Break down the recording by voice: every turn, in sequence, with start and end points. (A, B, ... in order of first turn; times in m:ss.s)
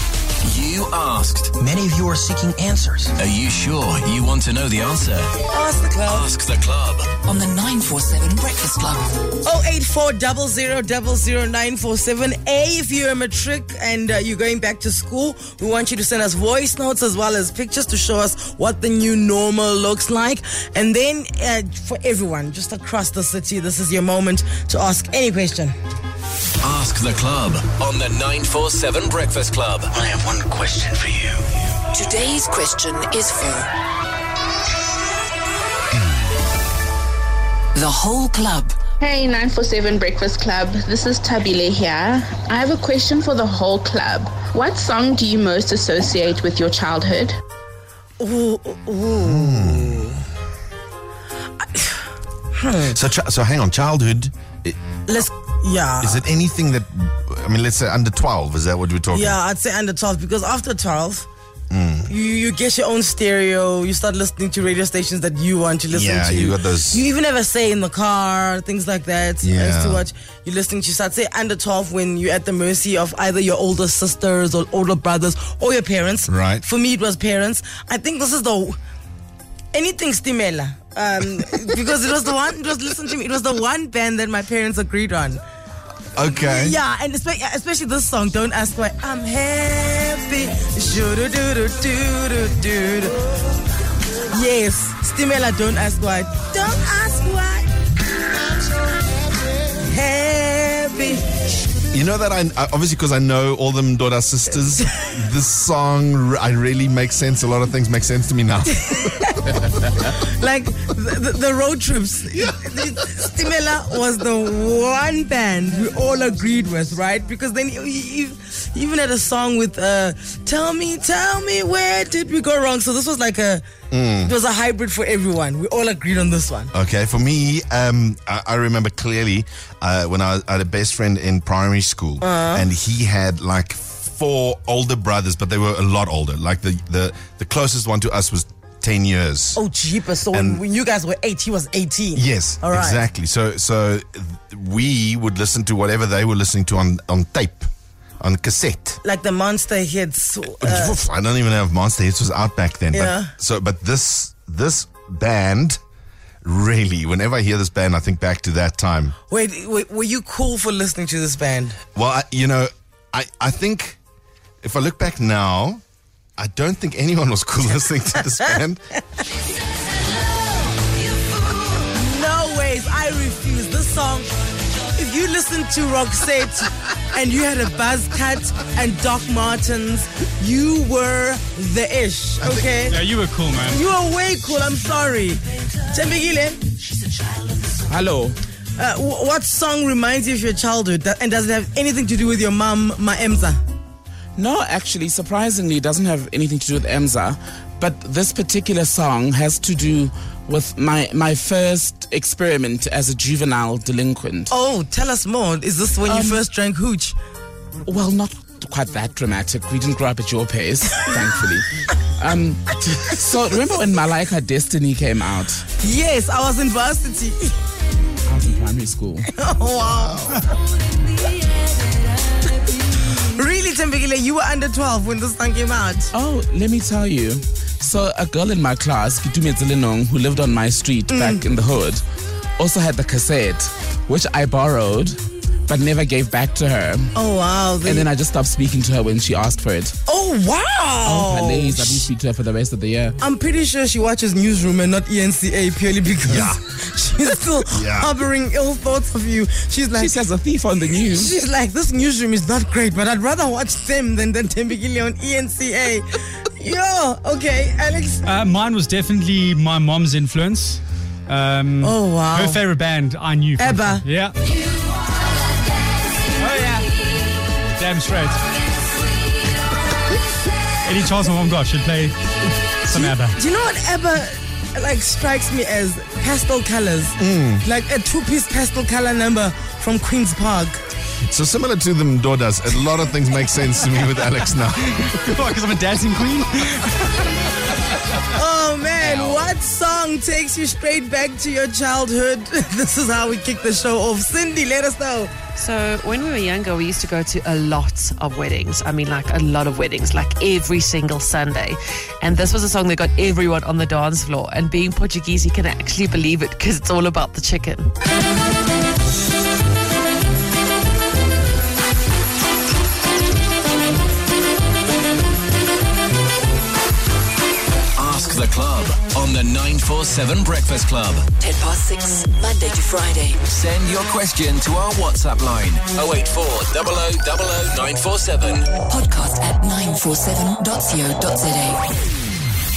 0:00.4-0:01.5 A
0:01.6-0:03.1 B
0:03.2-0:05.3 A
0:05.5-0:06.3 C
0:06.1-0:07.1 A
0:07.2-0:09.1 D
0:09.4-0:25.7 C
0:26.6-0:29.9 A
0:30.0-0:31.4 B
0:31.9-0:33.7 D
0:37.7-0:38.8 D
0:39.0-0:47.4 E
0:48.2-0:50.1 C
0:49.2-0:50.2 F
0:52.5-0:53.0 C
0:52.9-0:54.8 F
0:55.1-0:56.2 C
0:56.0-0:59.4 F
0:59.1-1:01.3 C
1:01.7-1:02.1 F
1:02.1-1:18.8 C
1:05.9-1:07.0 F
1:09.4-1:10.0 F
1:16.3-1:16.6 F
1:19.7-1:25.4 C
1:26.2-1:26.8 F
1:26.3-1:33.3 C
1:34.3-1:37.7 C
1:39.8-1:41.2 C
1:41.9-1:49.0 F
1:48.7-2:03.7 C
2:03.9-2:04.3 F
2:04.2-2:06.7 C
2:06.7-2:19.6 F
2:12.2-2:12.6 C
2:19.5-2:23.0 C
2:20.3-2:20.6 F
2:22.2-2:27.7 F
2:28.2-2:29.0 F
2:29.0-2:31.0 C
2:30.6-2:35.8 F
2:32.9-2:33.3 C
2:36.4-2:39.1 F
2:39.3-2:41.8 C
2:41.9-2:44.0 F
2:44.6-2:45.8 F
2:46.4-2:48.8 F
2:48.1-2:48.6 C
2:51.6-2:54.3 C
2:54.9-3:03.0 C
3:02.9-3:03.8 G
3:03.7-3:06.7 C
3:07.9-3:08.4 H
3:08.8-3:13.6 C
3:14.4-3:24.5 H
3:24.5-3:27.2 C
3:26.1-3:26.4 H
3:27.9-3:35.6 H
3:35.8-3:37.5 C
3:38.2-3:39.3 H
3:39.3-3:40.5 C
3:43.0-3:46.1 C
3:46.1-3:52.0 H
3:51.1-3:51.5 C
3:52.6-3:57.1 H
3:57.1-3:58.1 C
3:57.8-4:00.0 H
4:00.1-4:02.1 C
4:01.0-4:03.2 H
4:03.2-4:10.2 C
4:06.2-4:06.6 F
4:07.7-4:08.1 F
4:09.9-4:11.3 H
4:11.0-4:18.2 C
4:18.2-4:24.3 G
4:21.8-4:22.6 C
4:23.6-4:24.0 C
4:26.4-4:26.9 G
4:27.6-4:28.4 G
4:30.8-4:32.2 G
4:32.8-4:40.8 C
4:32.8-4:33.4 G
4:37.2-4:37.6 F
4:41.3-4:45.0 F
4:45.0-4:47.1 G
4:48.3-4:55.3 C
4:49.0-4:49.4 H
4:55.6-5:07.9 I
5:18.0-5:21.3 A
5:21.4-5:23.4 D
5:23.5-5:28.8 A
5:28.9-5:31.8 D